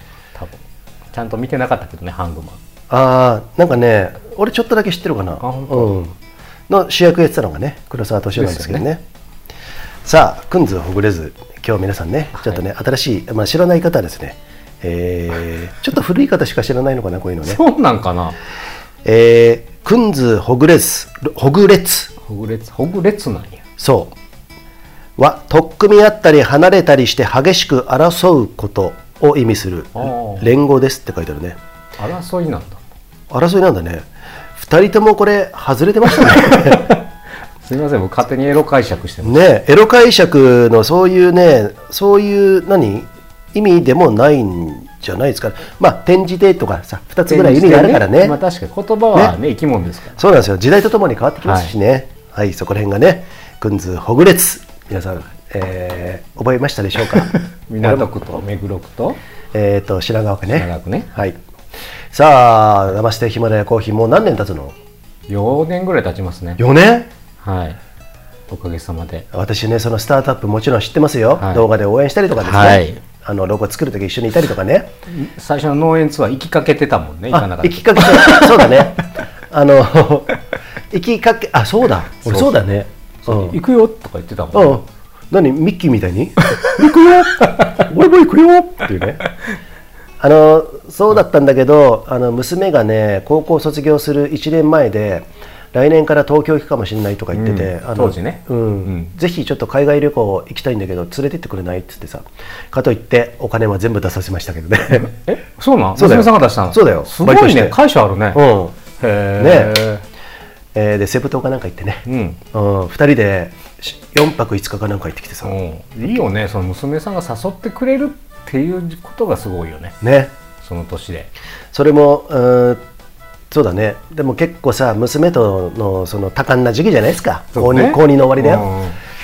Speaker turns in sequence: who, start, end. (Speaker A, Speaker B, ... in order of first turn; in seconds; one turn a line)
Speaker A: 0.3-2.6
Speaker B: 2.9-6.2
Speaker A: 5.4-6.0
Speaker B: 6.7-9.0
Speaker A: 8.4-8.9
Speaker B: 10.1-17.6
Speaker A: 12.3-12.6
Speaker A: 17.4-18.4
Speaker B: 19.0-22.1
Speaker A: 22.2-23.6
Speaker B: 23.8-24.1
Speaker B: 25.2-31.6
Speaker A: 30.0-30.5
Speaker A: 32.0-32.8
Speaker B: 33.3-37.0
Speaker A: 36.7-37.0
Speaker A: 37.6-39.5
Speaker B: 39.2-48.4
Speaker A: 47.3-50.2
Speaker B: 50.2-58.1
Speaker A: 51.4-51.7
Speaker A: 57.3-59.2
Speaker B: 59.5-61.4
Speaker A: 60.5-61.1
Speaker B: 62.1-64.8
Speaker A: 65.3-66.6
Speaker B: 66.6-67.1
Speaker A: 67.4-67.8
Speaker A: 68.5-69.3
Speaker B: 69.3-74.9
Speaker A: 71.4-71.7
Speaker A: 72.4-73.0
Speaker A: 75.1-78.7
Speaker B: 77.3-80.3
Speaker B: 80.9-83.6
Speaker A: 82.2-82.6
Speaker A: 83.2-84.8
Speaker B: 84.5-89.2
Speaker B: 90.2-105.1
Speaker A: 97.3-99.1
Speaker A: 105.0-108.4
Speaker B: 106.0-107.8
Speaker B: 108.3-108.8
Speaker A: 109.0-110.0
Speaker B: 109.4-109.8
Speaker B: 110.7-115.6
Speaker A: 112.1-112.4
Speaker A: 115.4-120.0
Speaker B: 120.0-120.3
Speaker A: 120.6-121.3
Speaker B: 121.7-122.8
Speaker B: 123.5-128.7
Speaker A: 127.5-129.0